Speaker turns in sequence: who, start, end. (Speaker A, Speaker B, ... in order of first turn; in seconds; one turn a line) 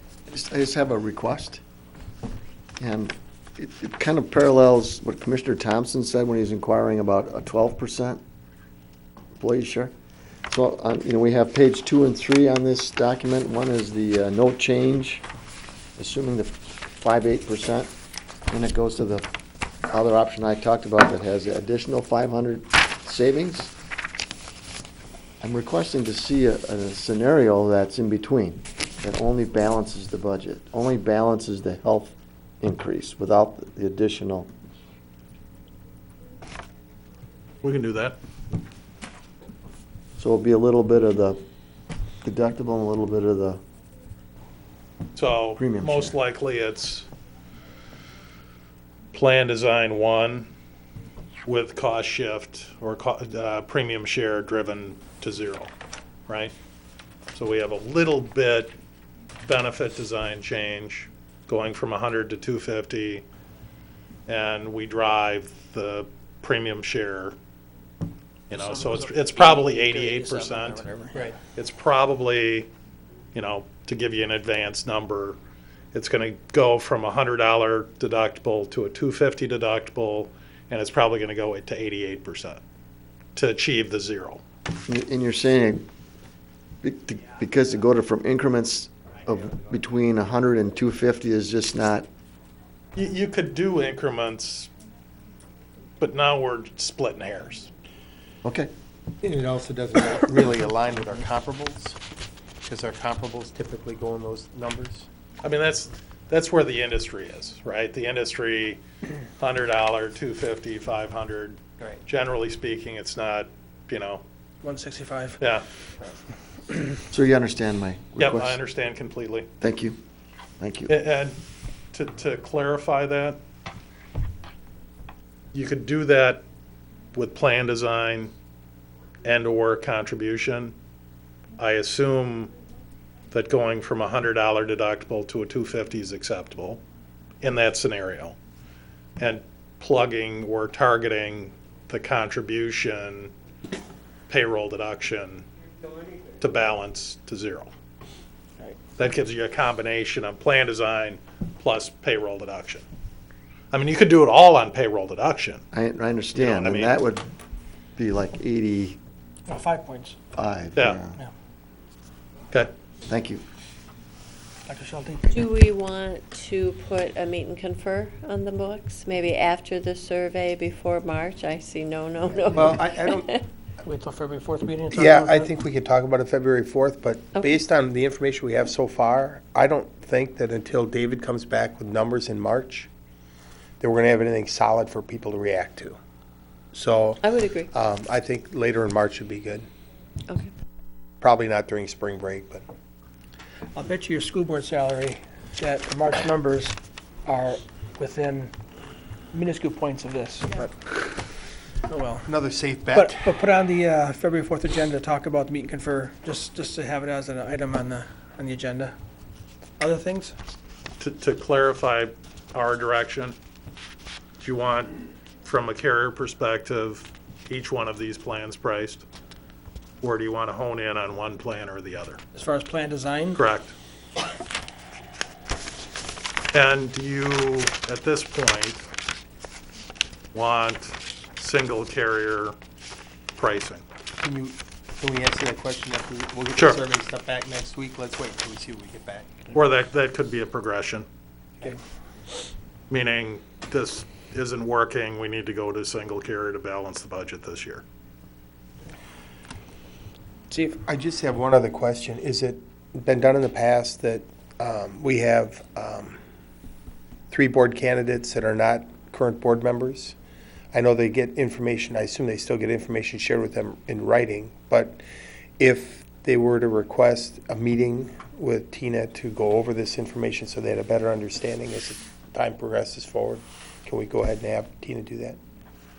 Speaker A: 0.3-1.6
Speaker A: 2.8-8.2
Speaker A: 9.4-9.9
Speaker A: 10.5-15.2
Speaker A: 16.0-17.9
Speaker A: 18.5-19.3
Speaker A: 19.9-23.7
Speaker A: 25.4-34.5
Speaker B: 37.6-38.2
Speaker A: 40.2-41.4
Speaker A: 42.2-43.6
Speaker B: 45.1-47.1
Speaker A: 45.6-46.1
Speaker B: 49.1-50.5
Speaker B: 51.5-55.7
Speaker B: 56.3-56.5
Speaker B: 57.3-58.7
Speaker B: 59.5-63.2
Speaker B: 64.3-67.4
Speaker B: 68.5-70.9
Speaker C: 68.5-71.3
Speaker B: 71.5-72.7
Speaker B: 73.3-75.4
Speaker B: 75.9-82.6
Speaker B: 83.3-84.4
Speaker A: 84.9-85.9
Speaker A: 86.8-92.1
Speaker B: 93.0-94.7
Speaker B: 96.0-97.7
Speaker A: 98.4-98.7
Speaker D: 99.2-102.0
Speaker D: 102.6-105.1
Speaker B: 105.4-108.8
Speaker B: 109.4-114.2
Speaker C: 114.6-115.4
Speaker B: 115.4-115.7
Speaker A: 117.1-118.6
Speaker B: 118.2-119.5
Speaker A: 119.6-120.0
Speaker A: 120.6-120.9
Speaker B: 120.9-121.4
Speaker B: 121.9-123.4
Speaker B: 125.5-126.4
Speaker B: 127.1-128.3
Speaker B: 129.2-130.8
Speaker B: 131.6-132.5
Speaker B: 133.3-136.8
Speaker B: 137.4-138.4
Speaker B: 139.2-143.3
Speaker B: 144.3-145.5
Speaker B: 146.4-147.7
Speaker B: 149.0-152.8
Speaker B: 153.7-155.6
Speaker A: 155.7-157.3
Speaker B: 156.3-157.0
Speaker A: 158.0-159.0
Speaker C: 159.5-160.2
Speaker A: 160.3-161.2
Speaker A: 163.1-163.4
Speaker C: 164.7-165.3
Speaker E: 165.3-173.4
Speaker D: 172.4-173.3
Speaker C: 173.8-175.5
Speaker D: 174.9-182.9
Speaker D: 183.8-186.0
Speaker D: 186.7-189.7
Speaker E: 187.2-187.7
Speaker D: 191.2-192.6
Speaker C: 193.7-198.5
Speaker C: 199.3-200.9
Speaker C: 201.9-202.3
Speaker D: 202.3-203.3
Speaker C: 202.9-208.9
Speaker C: 209.8-210.3
Speaker B: 211.0-213.4
Speaker B: 214.4-219.1
Speaker B: 220.0-222.2
Speaker C: 222.3-223.4
Speaker B: 223.4-223.8
Speaker B: 226.5-228.8
Speaker B: 230.3-232.6
Speaker B: 233.4-233.8
Speaker D: 234.2-239.4
Speaker B: 239.5-241.1
Speaker B: 242.9-247.8
Speaker C: 250.5-250.8
Speaker D: 250.9-256.2
Speaker D: 257.3-260.2
Speaker D: 260.7-265.0
Speaker D: 265.6-275.4